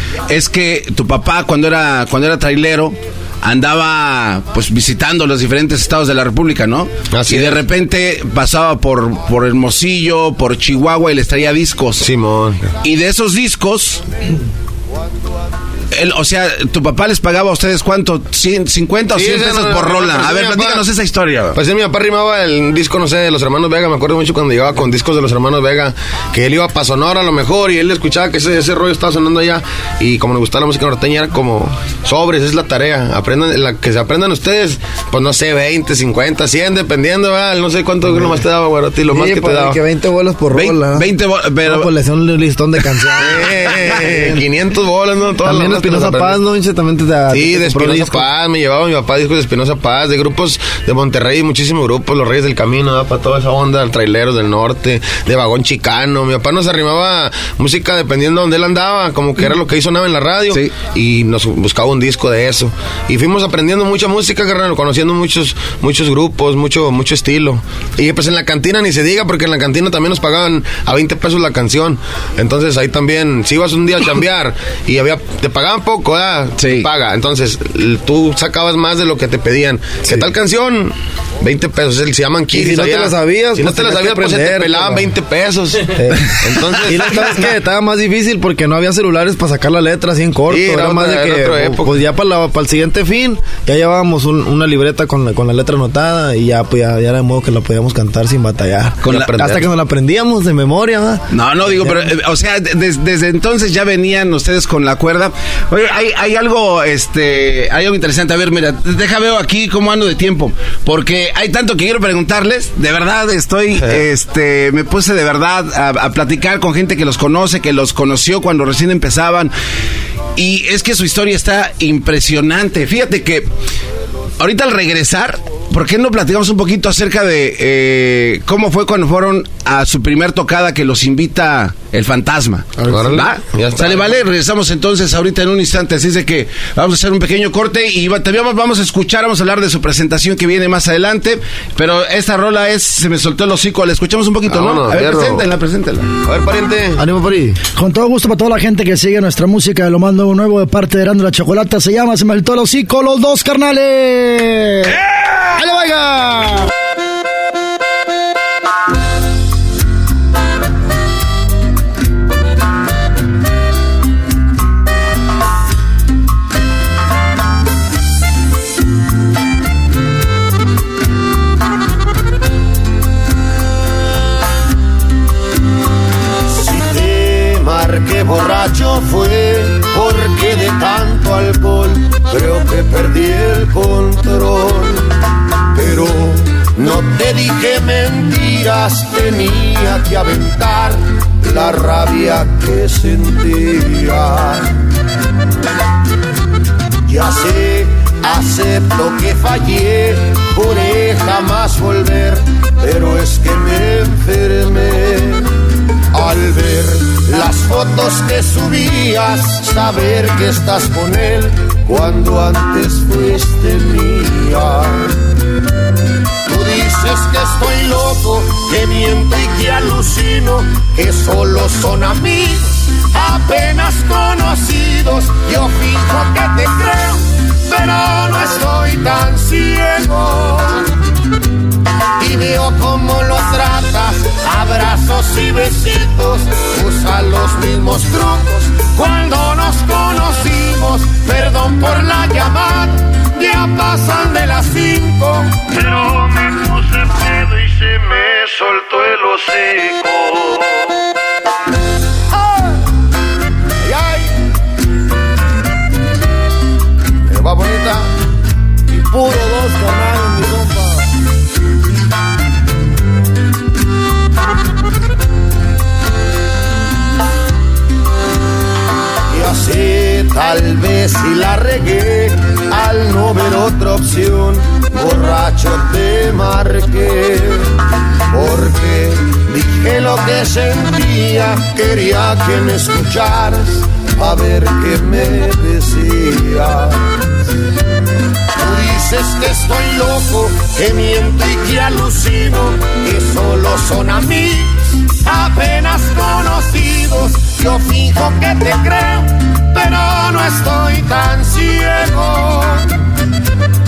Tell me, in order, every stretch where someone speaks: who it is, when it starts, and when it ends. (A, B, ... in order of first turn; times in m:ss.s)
0:00.3-0:12.1 A
0:07.1-0:07.6 B
0:12.0-0:12.7 B
0:12.8-0:14.0 A
0:15.9-0:21.6 A
0:19.1-0:20.8 B
0:21.5-0:39.8 B
0:38.0-0:38.4 C
0:39.1-0:41.1 C
0:40.5-0:41.9 A
0:41.6-0:44.4 C
0:43.2-0:46.4 B
0:45.4-0:48.3 C
0:47.3-1:27.5 B
1:16.6-1:16.9 A
1:22.5-1:25.1 C
1:26.0-1:26.2 C
1:26.8-1:42.1 C
1:30.5-1:32.0 B
1:39.0-1:39.6 A
1:39.1-1:39.6 B
1:41.3-1:59.5 A
1:53.8-1:54.0 B
2:00.4-2:03.5 A
2:04.4-2:26.1 A
2:12.8-2:14.2 B
2:24.5-2:25.4 B
2:26.2-2:27.0 B
2:27.0-2:27.6 C
2:27.8-2:35.0 D
2:34.8-2:35.6 A
2:35.6-2:36.6 D
2:56.5-3:05.0 E
3:05.7-3:14.7 E
3:17.1-3:25.4 E
3:26.1-3:35.1 E
3:36.5-3:50.9 E
3:52.2-4:10.9 E
4:13.8-4:14.2 E
4:19.0-4:21.0 E
4:29.3-4:37.6 E
4:38.3-4:47.0 E
4:48.6-5:02.9 E